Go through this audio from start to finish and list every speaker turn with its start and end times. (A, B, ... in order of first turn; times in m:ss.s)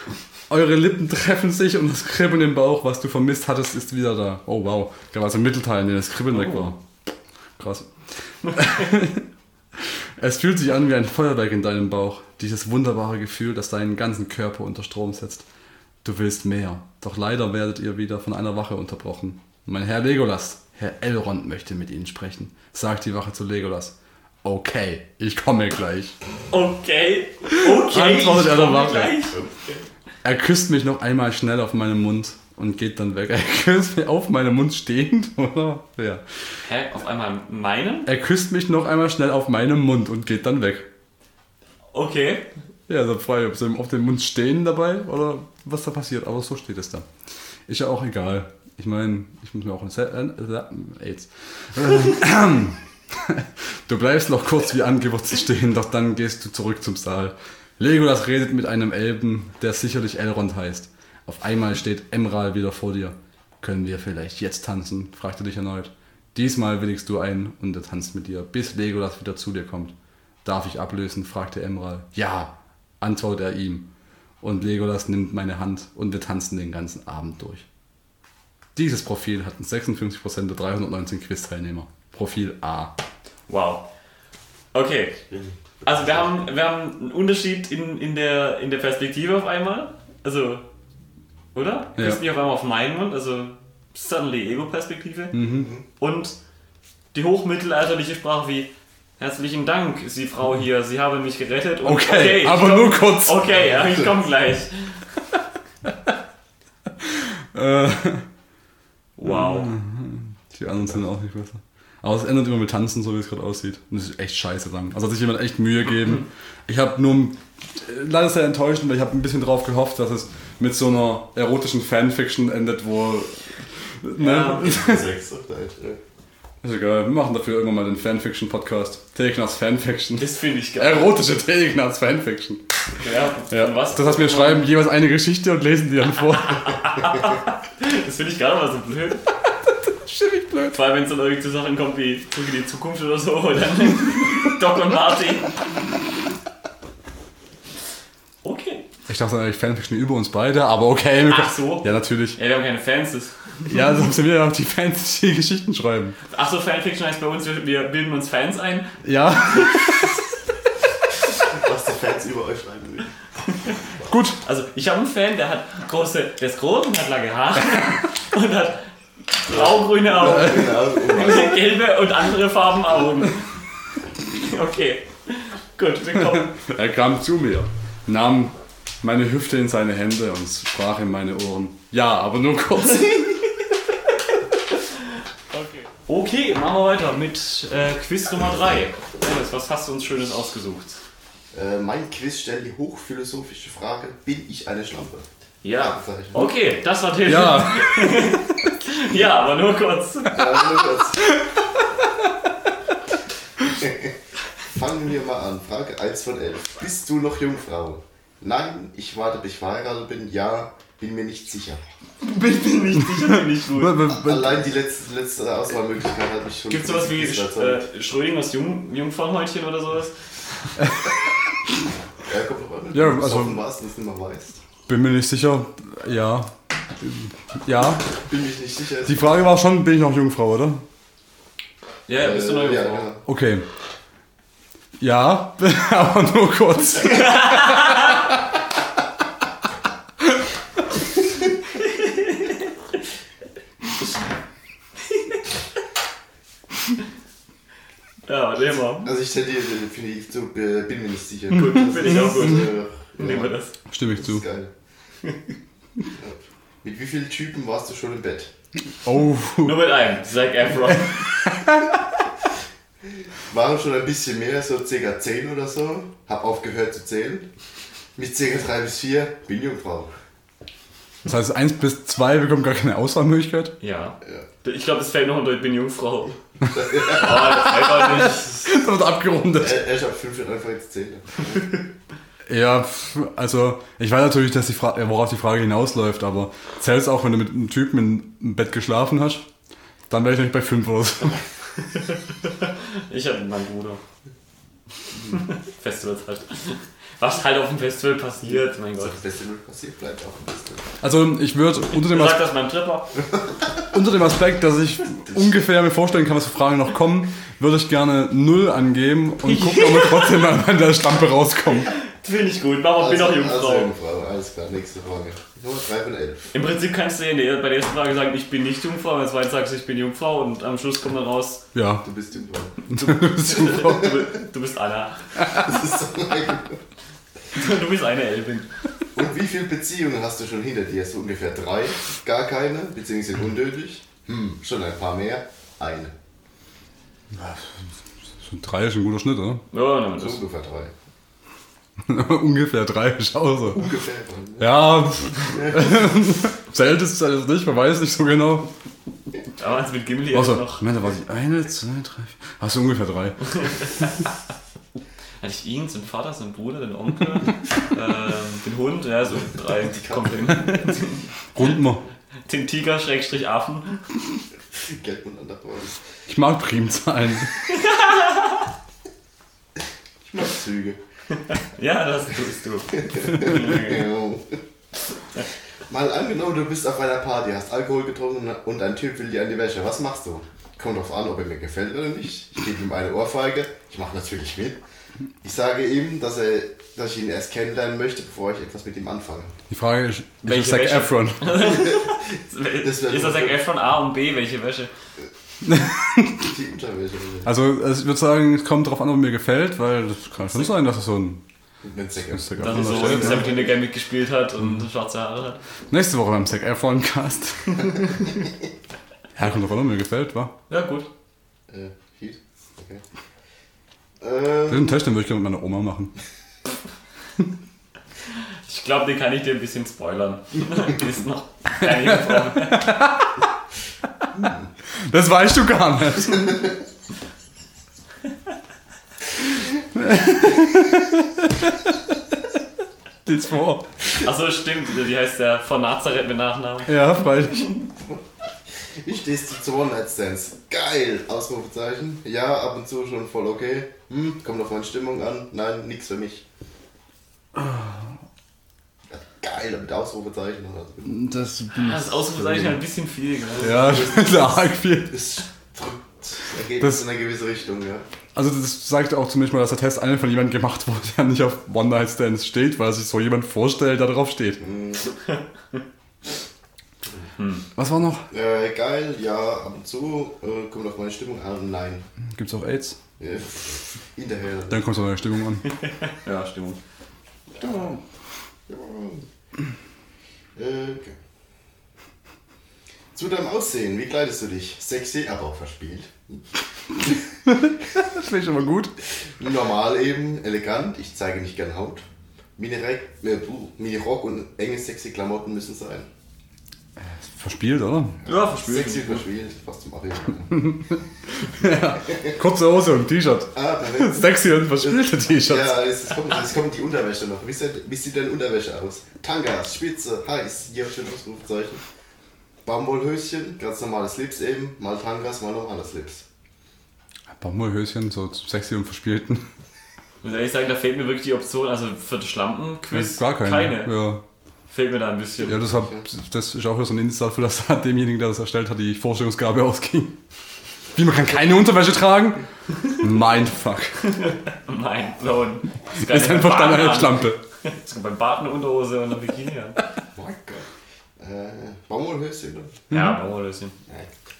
0:00.5-0:06.8 A
0:06.3-0:06.7 B
0:07.6-0:15.4 A
0:08.4-0:08.8 B
0:16.0-0:26.2 A
0:26.5-0:29.4 B
0:27.6-0:29.2 A
0:29.3-0:29.8 C
0:30.2-0:36.2 A
0:36.6-0:38.1 B
0:38.0-0:40.9 A
0:41.9-0:42.5 B
0:42.9-0:47.1 A
0:47.7-1:13.9 A
1:14.4-1:17.6 A
1:18.7-1:22.9 A
1:23.5-1:23.8 B
1:24.7-1:25.2 B
1:25.3-1:26.2 C
1:25.8-1:30.6 B
1:31.5-1:36.3 B
1:35.3-1:35.7 A
1:37.1-1:45.0 B
1:41.8-1:43.5 A
1:45.8-1:46.1 A
1:47.0-1:48.3 A
1:49.2-2:05.1 A
1:49.2-1:49.7 B
2:04.2-2:04.8 B
2:04.4-2:06.0 C
2:06.6-2:12.7 A
2:10.2-2:11.1 B
2:13.0-2:14.7 B
2:13.5-2:16.8 A
2:16.5-2:19.2 B
2:19.8-2:20.8 A
2:20.7-2:25.6 B
2:28.4-2:28.8 B
2:29.1-2:32.4 A
2:31.3-2:33.7 B
2:33.6-2:36.2 A
2:36.3-2:39.9 B
2:39.0-2:40.2 A
2:41.4-2:43.2 C
2:44.1-2:44.4 A
2:44.4-2:53.6 B
2:49.5-2:51.7 C
2:54.3-2:56.5 B
2:56.2-3:03.4 A
3:05.5-3:11.0 B
3:11.5-3:16.5 C
3:15.6-3:20.7 B
3:17.2-3:18.6 A
3:20.3-3:21.4 C
3:23.6-3:31.8 C
3:32.2-3:34.0 B
3:33.3-3:34.6 A
3:34.1-3:37.8 C
3:36.7-3:40.3 B
3:42.2-3:44.6 C
3:42.9-3:43.6 A
3:44.9-3:48.1 A
3:48.2-3:49.3 C
3:49.0-3:50.8 A
3:52.1-3:53.0 B
3:52.1-3:53.2 C
3:53.2-3:53.6 A
3:55.0-3:58.4 A
3:57.2-3:58.1 B
4:00.2-4:00.5 A
4:01.8-4:02.6 B
4:08.2-4:09.1 B
4:09.0-4:14.7 C
4:11.5-4:13.7 B
4:13.9-4:14.4 A
4:16.1-4:18.5 C
4:19.0-4:19.8 A
4:19.6-4:21.3 B
4:21.3-4:22.0 A
4:23.2-4:27.5 C
4:28.2-4:30.1 C
4:31.2-4:33.8 A
4:33.8-4:36.4 B
4:36.7-4:37.8 C
4:37.0-4:38.6 B
4:37.2-4:39.8 A
4:39.6-4:41.8 C
4:42.5-4:49.5 A
4:50.1-4:51.4 A
4:51.9-4:54.0 B
4:55.3-4:59.2 B
4:59.0-5:00.9 C
5:01.0-5:02.5 A
5:01.9-5:03.3 B
5:03.9-5:11.9 A
5:09.5-5:10.4 B
5:11.8-5:13.9 B
5:13.0-5:16.5 C
5:16.5-5:21.6 B
5:21.7-5:22.0 A
5:22.0-5:22.8 C
5:22.9-5:25.4 B
5:22.9-5:24.2 A
5:25.4-5:25.7 A
5:25.6-5:26.8 C
5:27.5-5:28.7 B
5:29.1-5:36.2 C
5:37.3-5:37.8 A
5:38.4-5:39.6 A
5:39.7-5:40.4 B
5:40.2-5:40.9 C
5:42.0-5:43.8 A
5:43.7-5:44.7 C
5:44.6-5:48.7 A
5:45.5-5:45.9 C
5:49.6-5:50.9 B
5:50.3-5:53.7 A
5:53.5-5:54.1 B
5:55.4-6:01.3 B
5:59.8-6:00.8 C
6:01.5-6:02.0 A
6:02.4-6:04.1 B
6:04.8-6:06.1 C
6:06.3-6:07.5 A
6:07.7-6:08.6 B
6:10.2-6:11.0 C
6:11.4-6:14.1 B
6:13.0-6:14.6 C
6:15.9-6:24.8 C
6:25.4-6:29.6 C
6:29.7-6:31.6 A
6:30.4-6:34.9 B
6:31.7-6:32.2 C
6:32.8-6:33.6 C
6:35.6-6:36.5 A
6:36.4-6:37.5 C
6:37.4-6:41.4 A
6:41.8-6:43.8 C
6:42.1-6:43.5 A
6:42.6-6:45.6 B
6:45.9-6:48.0 A
6:49.3-6:50.5 A
6:50.7-6:51.1 B
6:51.7-6:53.0 C
6:54.2-6:55.0 C
6:54.7-6:56.1 A
6:58.6-7:02.9 B
7:01.8-7:03.4 A
7:04.9-7:06.6 A
7:09.9-7:12.4 A
7:13.2-7:13.9 A
7:14.2-7:16.9 B
7:16.8-7:17.7 A
7:18.0-7:18.2 C
7:18.7-7:26.4 C
7:27.5-7:28.1 A
7:29.1-7:31.2 C
7:31.0-7:32.8 A
7:31.7-7:34.0 B
7:33.6-7:35.2 A
7:33.7-7:38.0 C
7:36.8-7:37.0 A
7:38.3-7:44.6 A
7:44.6-7:45.1 C
7:47.4-7:47.6 B
7:47.8-7:48.3 A
7:48.3-7:52.0 C
7:52.3-7:53.0 A
7:53.2-7:54.8 C
7:54.7-7:55.6 A
7:55.8-7:56.8 B
7:57.5-7:58.0 C
7:58.7-7:59.2 C
8:00.6-8:01.2 C
8:03.1-8:07.2 C
8:07.4-8:08.9 A
8:09.0-8:12.0 C
8:12.6-8:16.1 C
8:17.0-8:18.2 A
8:18.2-8:19.2 B
8:18.3-8:21.0 C
8:20.5-8:25.8 A
8:22.0-8:22.4 C
8:23.5-8:31.8 C
8:32.6-8:36.2 C
8:37.3-8:39.5 A
8:40.2-8:43.9 B
8:42.9-8:44.2 A
8:44.7-8:45.6 B
8:45.4-8:46.0 C
8:45.5-8:50.2 A
8:50.9-8:54.2 A
8:54.1-8:59.8 B
8:56.0-8:57.4 A
9:00.1-9:00.7 C
9:01.2-9:02.8 C
9:02.9-9:03.2 A
9:02.9-9:03.7 B